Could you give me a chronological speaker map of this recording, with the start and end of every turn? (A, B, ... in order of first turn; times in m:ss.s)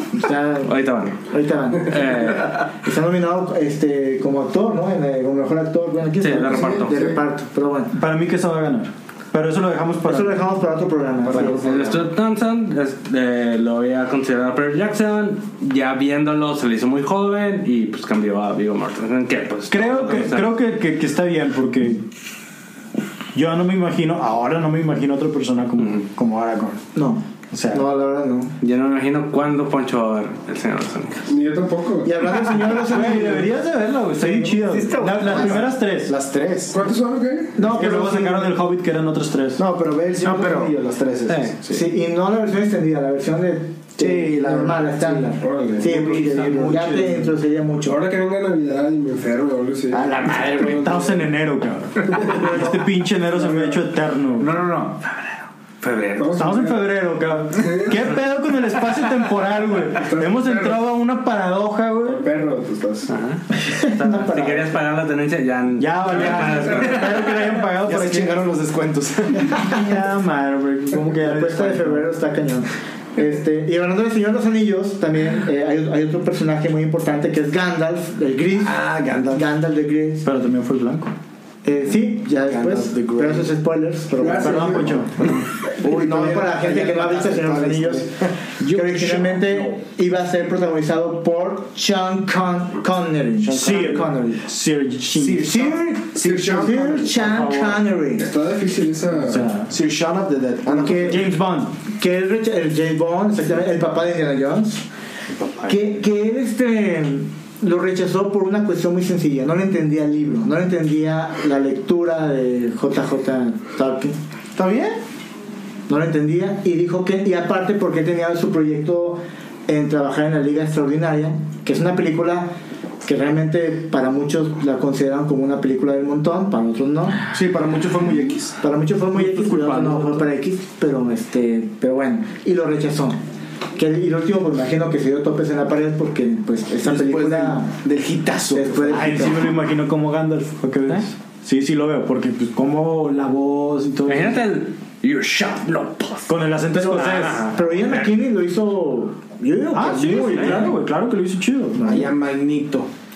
0:00.1-0:07.9 A
0:00.6-0:01.2 B
0:01.8-0:02.7 B
0:06.2-0:07.1 B
0:06.7-0:07.2 C
0:07.9-0:10.4 D
0:10.0-0:12.0 A
0:11.3-0:11.8 E
0:11.4-0:20.5 B
0:19.7-0:22.0 D
0:23.3-0:26.8 D
0:26.9-0:28.5 A
0:27.5-0:27.8 D
0:28.6-0:31.2 B
0:31.3-0:32.2 C
0:32.0-0:33.5 A
0:32.8-0:36.1 D
0:34.4-0:36.8 E
0:34.8-0:35.2 F
0:36.7-0:37.6 C
0:37.5-0:38.6 A
0:37.7-0:39.6 D
0:39.6-0:41.9 E
0:40.2-0:40.7 F
0:41.3-0:41.5 B
0:41.7-0:48.0 A
0:44.0-0:46.8 E
0:45.4-0:47.0 C
0:46.2-0:47.3 D
0:47.8-0:51.2 C
0:49.9-0:50.9 E
0:50.6-0:54.5 D
0:52.1-0:52.7 A
0:54.4-0:55.2 F
0:55.8-0:56.4 F
0:56.2-0:56.9 C
0:56.4-1:02.2 D
0:57.6-0:58.1 C
1:00.0-1:00.8 C
1:02.0-1:03.1 C
1:03.1-1:07.3 B
1:03.6-1:04.8 A
1:05.8-1:08.5 D
1:06.4-1:06.8 C
1:07.8-1:09.8 E
1:09.6-1:12.1 D
1:11.1-1:20.3 A
1:18.6-1:19.4 E
1:20.2-1:21.1 D
1:21.6-1:34.5 A
1:22.4-1:23.5 E
1:24.1-1:25.1 C
1:24.4-1:25.4 D
1:25.2-1:29.4 E
1:33.4-1:34.0 E
1:33.4-1:35.5 D
1:35.1-1:37.6 E
1:35.4-1:38.3 A
1:36.2-1:37.0 C
1:38.2-1:39.5 C
1:39.1-1:39.7 D
1:39.7-1:41.2 E
1:40.7-1:41.2 A
1:40.9-1:41.7 D
1:41.9-1:44.8 A
1:45.6-1:54.2 A
1:54.6-1:55.0 E
1:55.9-2:02.5 A
2:03.0-2:07.2 A
2:07.3-2:08.5 E
2:08.6-2:13.2 A
2:09.3-2:10.0 D
2:09.8-2:10.1 B
2:13.7-2:17.7 A
2:16.8-2:19.4 E
2:18.5-2:19.5 A
2:18.9-2:24.4 D
2:24.1-2:26.3 B
2:26.3-2:27.5 D
2:26.7-2:30.8 A
2:27.0-2:27.5 B
2:29.7-2:32.0 D
2:31.8-2:32.1 A
2:31.8-2:32.9 E